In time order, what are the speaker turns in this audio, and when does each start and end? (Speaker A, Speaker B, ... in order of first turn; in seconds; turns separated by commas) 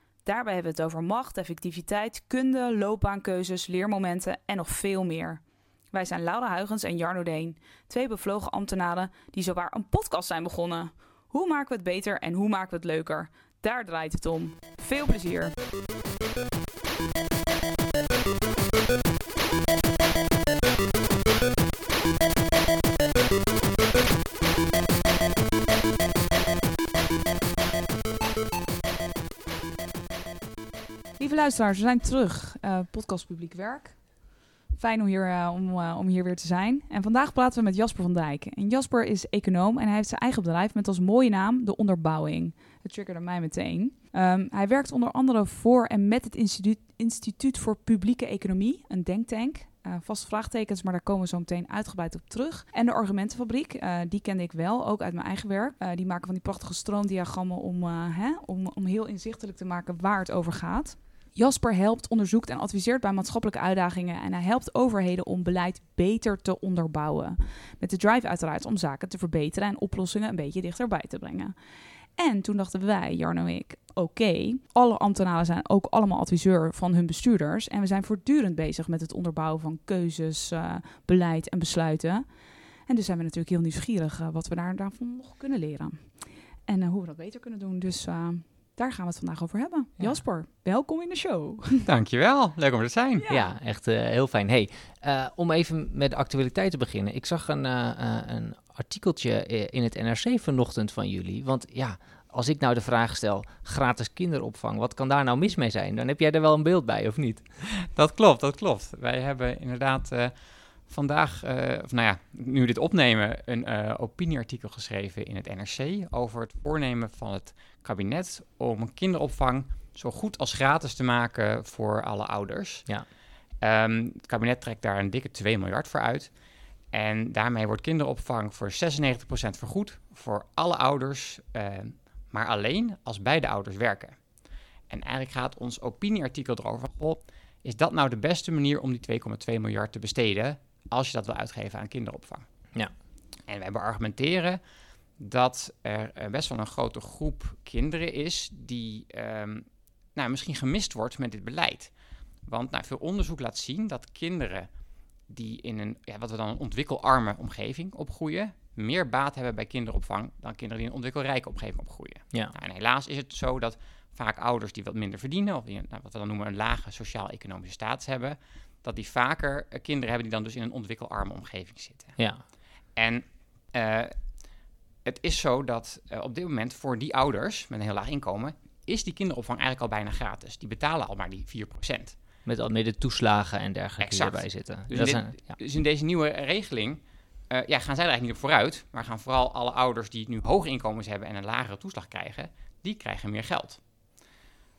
Speaker A: 0.2-5.4, Speaker A: 5.9-15.6, Speaker A: 31.2-34.0, Speaker A: 34.7-71.5, Speaker A: 72.2-82.3, Speaker A: 82.9-91.8, Speaker B: 91.8-93.2, Speaker A: 93.2-93.5, Speaker C: 93.3-107.4, Speaker B: 108.0-110.3, Speaker B: 110.9-122.9, Speaker B: 123.6-126.3, Speaker B: 126.9-134.2, Speaker B: 134.9-142.5, Speaker B: 143.5-144.6, Speaker B: 145.2-151.9, Speaker B: 152.5-154.7, Speaker B: 155.3-172.2, Speaker C: 172.2-172.4, Speaker B: 173.0-174.2, Speaker B: 175.1-182.2, Speaker C: 182.5-185.3, Speaker B: 184.0-193.8